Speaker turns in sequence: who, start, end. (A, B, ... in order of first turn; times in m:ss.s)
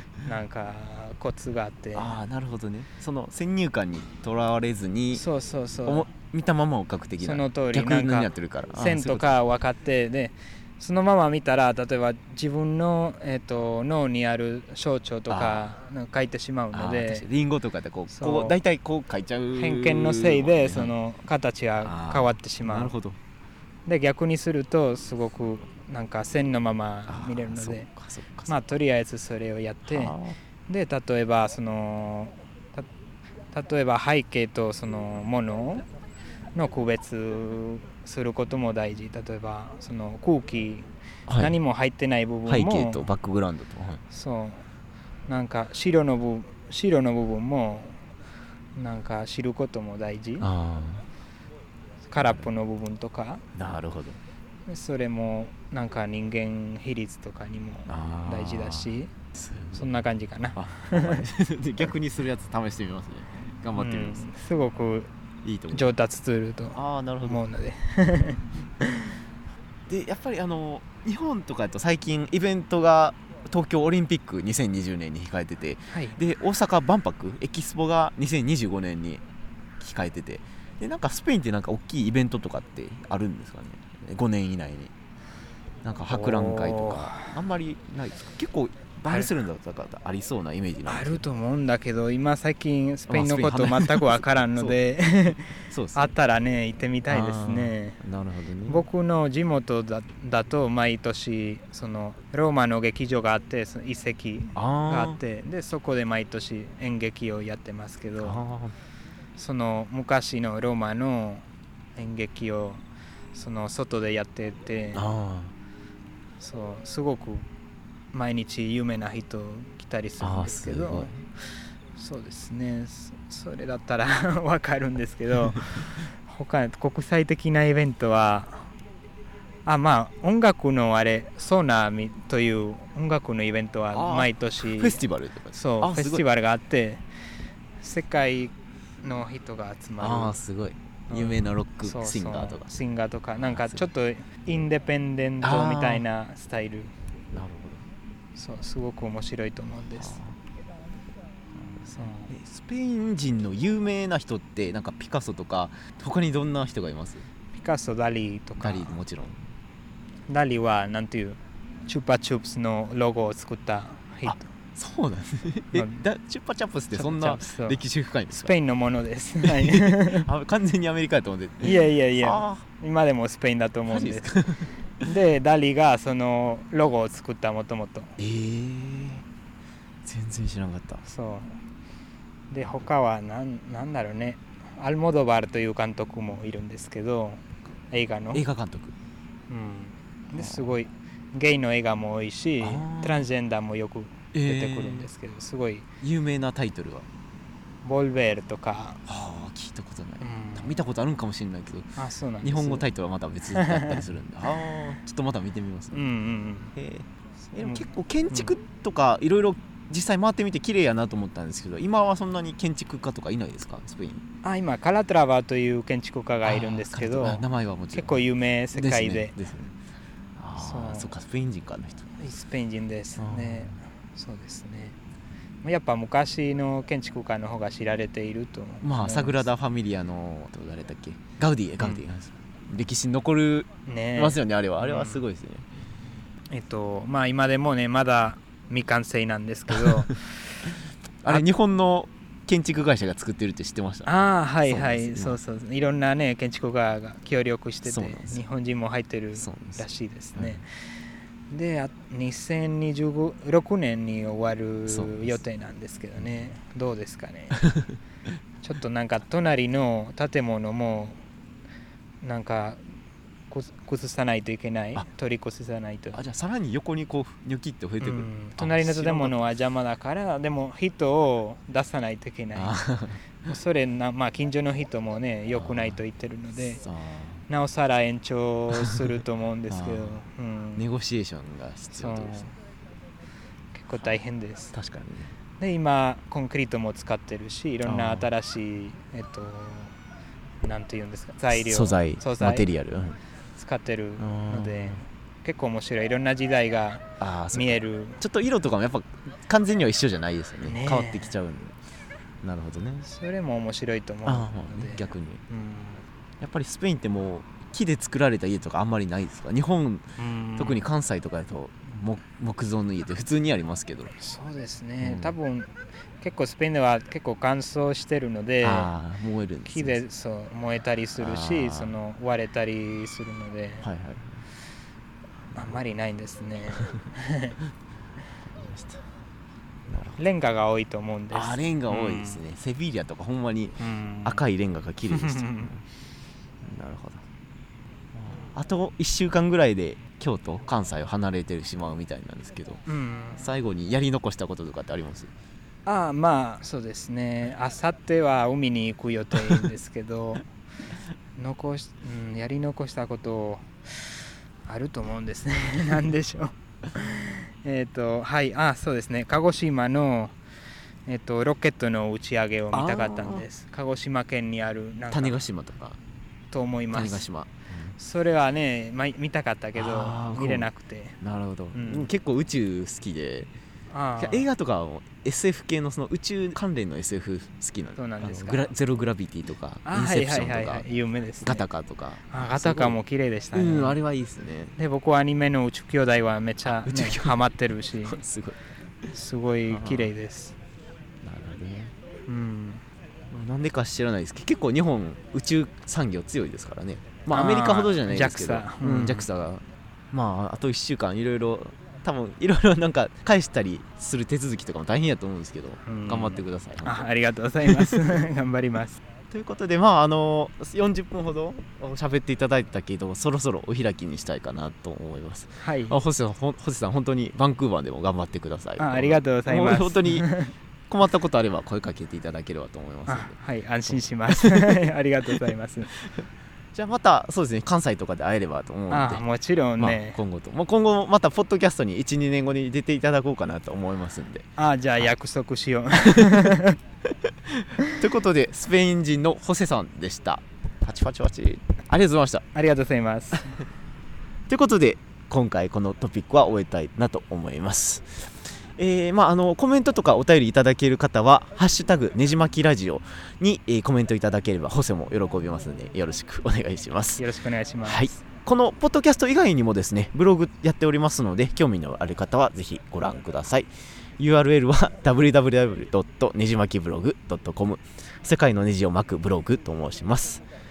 0:00.2-0:02.1 A
0:02.0-0:05.2 B
0:05.1-0:06.1 A
0:05.9-0:09.4 B
0:07.2-0:17.3 A
0:15.3-0:15.7 B
0:16.7-0:21.0 B
0:18.1-0:18.6 A
0:19.6-0:22.9 A
0:21.8-0:23.2 B
0:23.9-0:27.9 A
0:27.1-0:28.5 B
0:28.5-0:32.9 A
0:29.9-0:30.4 B
0:33.5-0:35.8 A
0:36.6-0:43.1 A
0:41.3-0:41.6 B
0:42.5-0:44.0 B
0:44.1-0:44.7 A
0:45.3-0:48.0 A
0:48.8-0:50.5 A
0:50.4-0:51.1 B
0:52.1-0:53.4 A
0:52.2-0:52.5 B
0:53.6-0:54.2 B
0:54.7-0:59.1 A
0:57.9-0:59.9 B
0:59.7-1:01.3 A
1:00.6-1:04.3 B
1:03.8-1:05.1 A
1:05.4-1:05.9 B
1:05.7-1:09.2 A
1:06.7-1:07.4 B
1:09.9-1:19.2 B
1:15.9-1:16.2 A
1:19.8-1:24.9 B
1:25.8-1:31.2 B
1:26.1-1:27.3 A
1:30.9-1:38.0 A
1:33.1-1:34.8 B
1:35.7-1:36.1 B
1:37.1-1:38.8 B
1:38.7-1:48.4 A
1:44.6-1:45.2 B
1:48.2-1:48.7 B
1:49.4-1:51.4 A
1:52.0-1:52.8 A
1:53.3-1:55.0 A
1:54.9-1:55.5 B
1:56.4-1:57.5 A
1:58.1-2:01.1 A
2:00.2-2:01.2 B
2:02.0-2:08.7 A
2:09.6-2:15.0 A
2:13.9-2:16.2 B
2:15.6-2:17.0 A
2:17.8-2:20.4 A
2:20.0-2:22.7 B
2:21.1-2:26.9 A
2:23.4-2:23.9 B
2:25.4-2:26.0 B
2:27.3-2:27.8 B
2:28.4-2:30.1 A
2:30.0-2:30.4 B
2:31.6-2:37.3 B
2:31.9-2:32.3 A
2:37.6-2:39.0 A
2:38.6-2:39.5 B
2:40.3-2:44.4 A
2:44.3-2:48.5 B
2:46.9-2:50.3 A
2:49.4-2:52.6 B
2:51.6-2:54.3 A
2:53.9-2:55.1 B
2:55.0-2:58.2 A
2:58.2-2:59.2 B
3:00.0-3:01.0 B
3:01.0-3:01.6 A
3:02.5-3:08.4 A
3:08.3-3:08.9 B
3:09.5-3:15.9 A
3:10.4-3:10.7 B
3:12.6-3:13.3 B
3:14.3-3:15.1 B
3:16.0-3:17.1 B
3:17.8-3:19.0 A
3:19.1-3:26.1 B
3:20.2-3:20.7 A
3:22.0-3:22.8 A
3:23.5-3:24.0 A
3:25.9-3:26.7 A
3:26.8-3:34.2 B
3:27.6-3:28.5 A
3:34.4-3:39.4 A
3:36.4-3:38.2 B
3:38.7-3:39.7 B
3:40.4-3:42.1 B
3:40.6-3:41.1 A
3:42.2-3:45.0 A
3:43.2-3:43.8 B
3:45.6-3:49.5 A
3:48.8-3:55.7 B
3:53.9-3:55.2 A
3:56.5-4:00.4 A
4:01.2-4:04.1 B
4:04.1-4:10.6 A
4:04.6-4:05.4 B
4:07.9-4:08.4 B
4:09.4-4:09.8 B
4:10.4-4:10.6 B
4:11.5-4:17.6 A
4:14.9-4:15.4 B
4:16.2-4:16.5 B
4:17.5-4:18.0 B
4:18.6-4:21.2 A
4:22.2-4:22.8 A
4:23.5-4:26.2 A
4:26.1-4:29.4 B
4:28.0-4:32.8 A
4:32.6-4:33.3 B
4:33.5-4:36.8 A
4:35.5-4:36.0 B
4:36.8-4:37.4 B
4:37.5-4:40.8 A
4:38.8-4:39.0 B
4:39.7-4:40.2 B
4:40.8-4:42.5 B
4:41.9-4:42.5 A
4:43.7-4:44.7 A
4:44.7-4:45.3 B
4:45.6-4:50.0 A
4:47.8-4:48.3 B
4:50.6-4:52.7 A
4:51.5-4:53.2 B
4:53.6-4:58.2 A
4:54.2-4:55.0 B
4:57.2-5:01.8 B
5:00.7-5:01.3 A
5:02.4-5:03.1 B
5:03.1-5:06.0 A
5:04.2-5:05.4 B
5:06.4-5:14.2 B
5:10.2-5:10.9 A
5:14.2-5:18.9 A
5:15.0-5:15.4 B
5:18.6-5:20.0 B
5:19.7-5:23.8 A
5:21.2-5:22.0 B
5:23.8-5:24.4 B
5:25.5-5:27.6 A
5:28.5-5:29.0 B
5:29.9-5:30.2 B
5:30.2-5:32.4 A
5:31.3-5:35.8 B
5:33.8-5:34.4 A
5:35.1-5:35.7 A
5:36.6-5:37.2 B
5:38.2-5:42.8 B
5:42.9-5:43.5 A
5:43.4-5:45.3 B
5:45.8-5:50.4 A
5:51.4-6:00.4 A
6:01.1-6:05.4 A
6:02.7-6:03.4 B
6:05.1-6:06.0 B
6:06.5-6:07.2 A
6:06.9-6:08.0 B
6:08.0-6:11.2 A
6:09.8-6:10.7 B
6:11.2-6:13.5 B
6:11.7-6:12.1 A
6:13.9-6:14.5 A
6:14.2-6:20.9 B
6:18.0-6:18.7 A
6:19.8-6:21.6 A
6:21.4-6:23.0 B
6:22.3-6:24.0 A
6:23.5-6:24.7 B
6:24.8-6:28.2 A
6:26.6-6:27.4 B
6:28.0-6:28.6 B
6:29.1-6:30.6 A
6:29.7-6:30.1 B
6:31.2-6:31.9 B
6:32.3-6:32.8 A
6:33.3-6:47.0 B
6:37.3-6:39.3 A
6:45.9-6:49.0 A
6:47.6-6:48.0 B
6:49.3-7:00.3 B
6:55.6-6:56.0 A
6:58.8-7:00.5 A
7:00.9-7:03.4 B
7:03.1-7:05.9 A
7:03.9-7:04.8 B
7:05.9-7:09.2 B
7:08.9-7:10.2 A
7:09.8-7:14.5 B
7:14.6-7:16.8 A
7:17.5-7:22.4 B
7:22.6-7:23.6 A
7:24.5-7:37.2 B
7:37.2-7:38.2 A
7:37.8-7:50.4 B